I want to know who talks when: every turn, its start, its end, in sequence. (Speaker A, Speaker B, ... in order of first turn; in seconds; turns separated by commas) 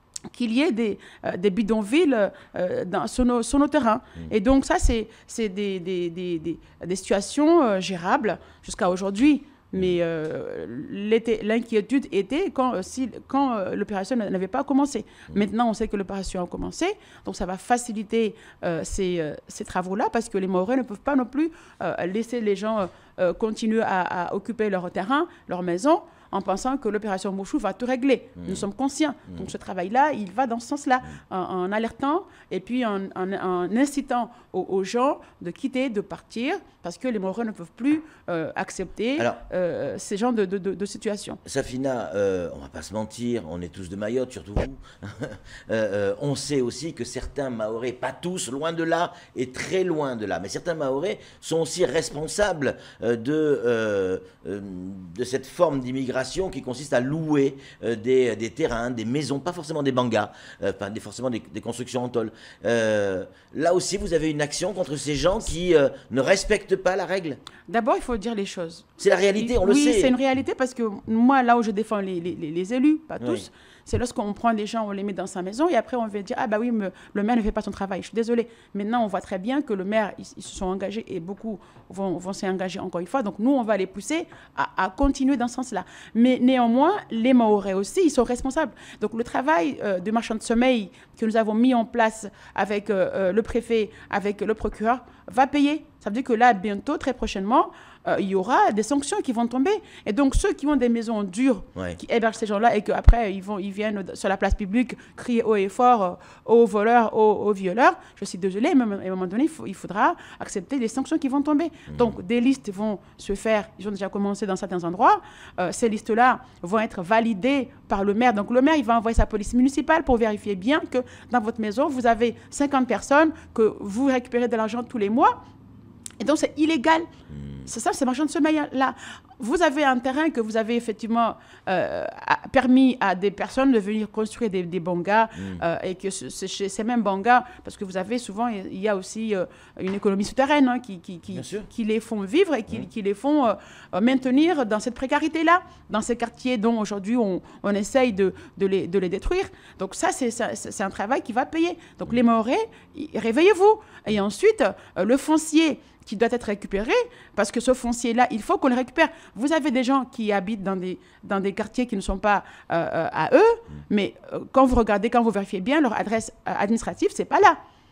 Speaker A: 0.3-41.4, Speaker B: 28.4-28.7, Speaker B: 41.5-67.4, Speaker A: 67.7-125.4, Speaker B: 69.0-70.2, Speaker B: 73.2-73.4, Speaker B: 111.9-112.2, Speaker A: 126.2-127.1, Speaker B: 127.3-127.7, Speaker A: 127.7-167.6, Speaker B: 135.3-135.6, Speaker B: 141.3-141.7